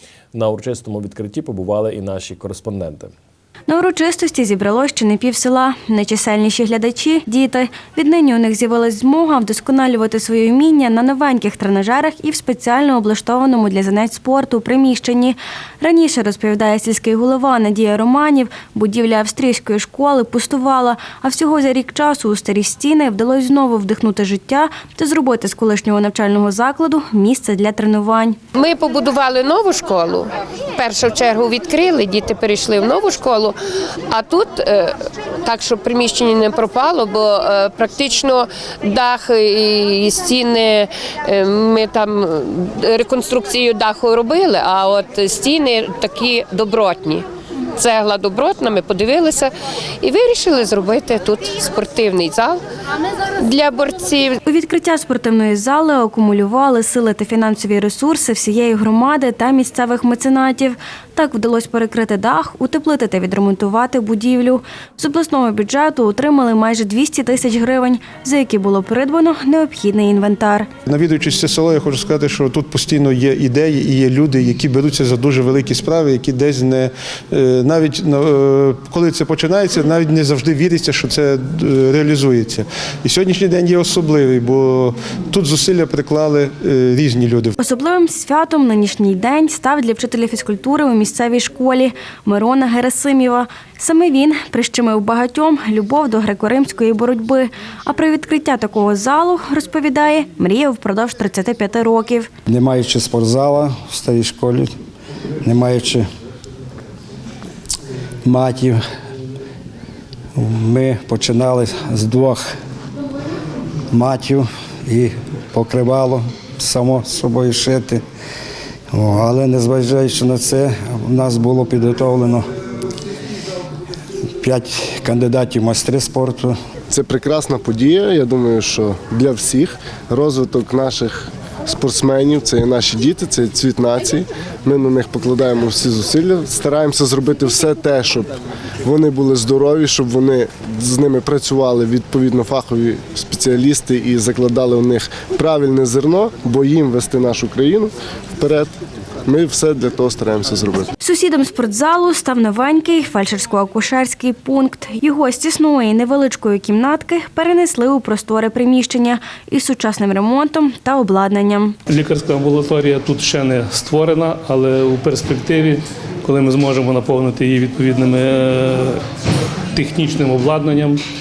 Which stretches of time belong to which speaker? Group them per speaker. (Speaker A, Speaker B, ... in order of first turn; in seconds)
Speaker A: 0.3-3.1
Speaker B: 3.7-28.4, 54.5-70.7, 87.6-102.3, 151.0-161.8
Speaker C: 28.5-33.5, 34.1-47.2, 47.8-52.6, 53.4-54.4
Speaker D: 70.8-87.5
Speaker E: 102.5-104.7, 105.4-106.0, 108.2-108.8, 110.3-112.4, 113.9-118.0, 118.9-122.4, 124.4-126.5
Speaker F: 126.9-138.3, 138.8-148.7, 149.2-150.9
Speaker G: 161.9-169.0, 169.7-171.0